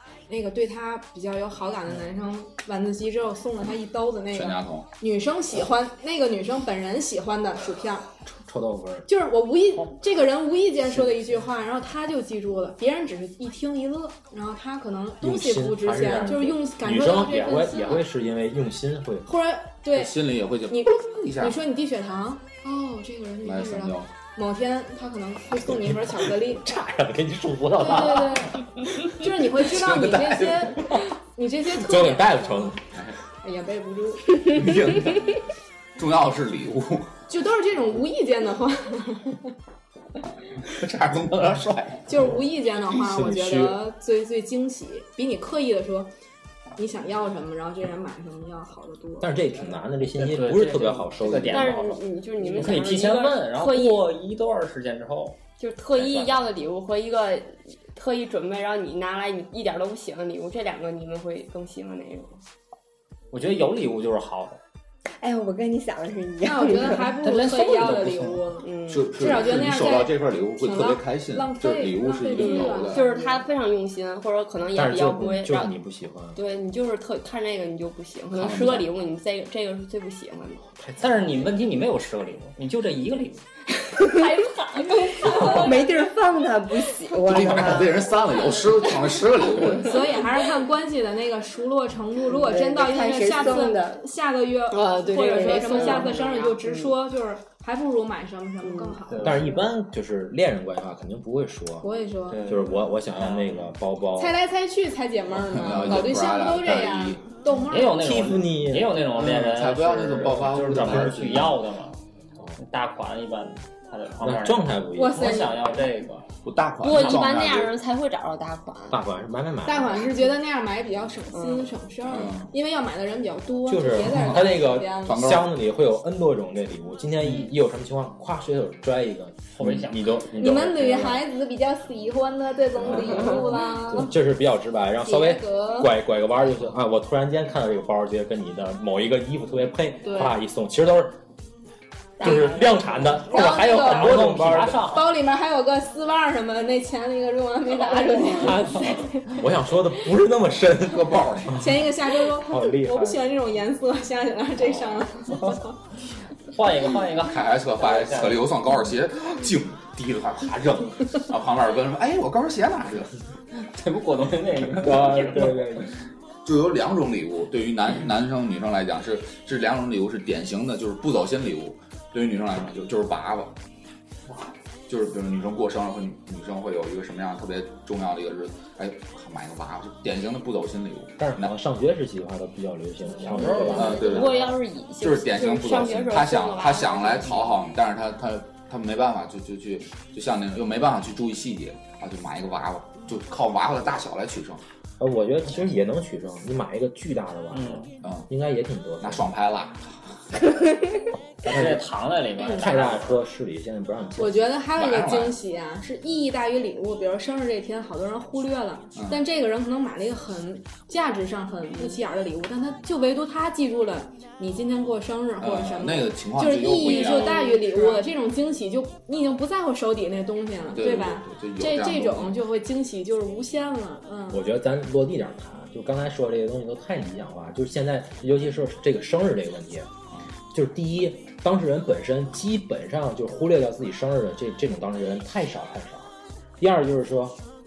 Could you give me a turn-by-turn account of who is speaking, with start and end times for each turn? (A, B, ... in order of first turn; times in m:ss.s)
0:00.3-0:08.1 A
0:04.3-0:04.9 B
0:08.2-0:09.1 C
0:09.1-0:18.0 A
0:15.2-0:19.3 C
0:19.2-0:26.7 A
0:19.9-0:21.6 B
0:23.4-0:24.1 B
0:25.6-0:28.5 C
0:27.8-0:32.8 A
0:29.7-0:31.0 B
0:31.7-0:32.8 C
0:33.4-0:34.6 A
0:34.5-0:35.4 B
0:36.0-0:37.1 B
0:37.3-0:39.5 A
0:40.7-0:42.0 B
0:42.1-0:46.1 A
0:42.9-0:43.8 C
0:46.8-0:49.8 A
0:49.2-0:51.8 C
0:50.2-0:55.4 D
0:51.5-0:54.1 E
0:55.6-1:02.4 E
0:56.0-0:56.3 D
1:03.3-1:04.6 D
1:05.2-1:07.2 F
1:06.4-1:13.0 A
1:07.2-1:08.4 D
1:08.6-1:09.3 E
1:08.9-1:13.0 B
1:12.3-1:15.7 E
1:13.0-1:13.4 F
1:14.7-1:16.4 C
1:16.3-1:20.6 E
1:18.3-1:18.9 B
1:20.8-1:21.5 C
1:21.0-1:23.4 D
1:24.0-1:25.8 E
1:25.2-1:25.6 A
1:25.5-1:28.1 F
1:27.2-1:30.0 B
1:29.8-1:39.6 A
1:32.2-1:34.0 F
1:34.7-1:36.9 E
1:35.2-1:36.1 F
1:39.1-1:39.4 D
1:39.2-1:41.9 C
1:41.8-1:42.6 A
1:42.3-1:43.7 D
1:42.4-1:44.4 C
1:44.2-1:48.4 A
1:45.4-1:47.2 B
1:47.7-1:52.0 D
1:47.8-1:49.2 C
1:49.1-1:51.6 B
1:50.6-1:51.5 C
1:52.6-1:56.3 D
1:54.2-1:55.5 C
1:55.0-1:55.7 A
1:56.4-1:57.7 B
1:56.8-1:59.0 E
1:58.9-2:00.3 C
1:59.6-2:05.2 A
2:01.3-2:01.7 E
2:02.1-2:02.5 B
2:03.6-2:11.3 C
2:04.1-2:05.5 B
2:09.5-2:10.3 D
2:10.3-2:14.2 A
2:12.8-2:21.2 C
2:15.0-2:16.0 A
2:20.0-2:20.4 A
2:22.2-2:25.0 C
2:22.2-2:22.6 A
2:23.1-2:29.4 A
2:23.7-2:25.2 D
2:28.4-2:28.9 D
2:29.3-2:33.2 C
2:30.8-2:31.7 B
2:31.5-2:35.8 A
2:36.5-2:38.5 D
2:37.2-2:43.1 B
2:43.6-2:45.9 D
2:44.8-2:45.9 C
2:46.4-2:53.5 B
2:54.9-3:01.5 B
3:01.2-3:03.9 C
3:03.2-3:04.5 D
3:03.4-3:07.4 E
3:03.6-3:14.6 B
3:15.0-3:19.3 C
3:17.5-3:17.9 D
3:18.0-3:18.3 B
3:19.0-3:20.6 B
3:21.4-3:23.2 D
3:21.4-3:24.6 C
3:24.2-3:44.4 A
3:24.7-3:25.3 B
3:35.4-3:37.5 B
3:37.0-3:38.0 E
3:40.7-3:42.4 B
3:44.3-3:49.9 C
3:50.5-3:57.4 C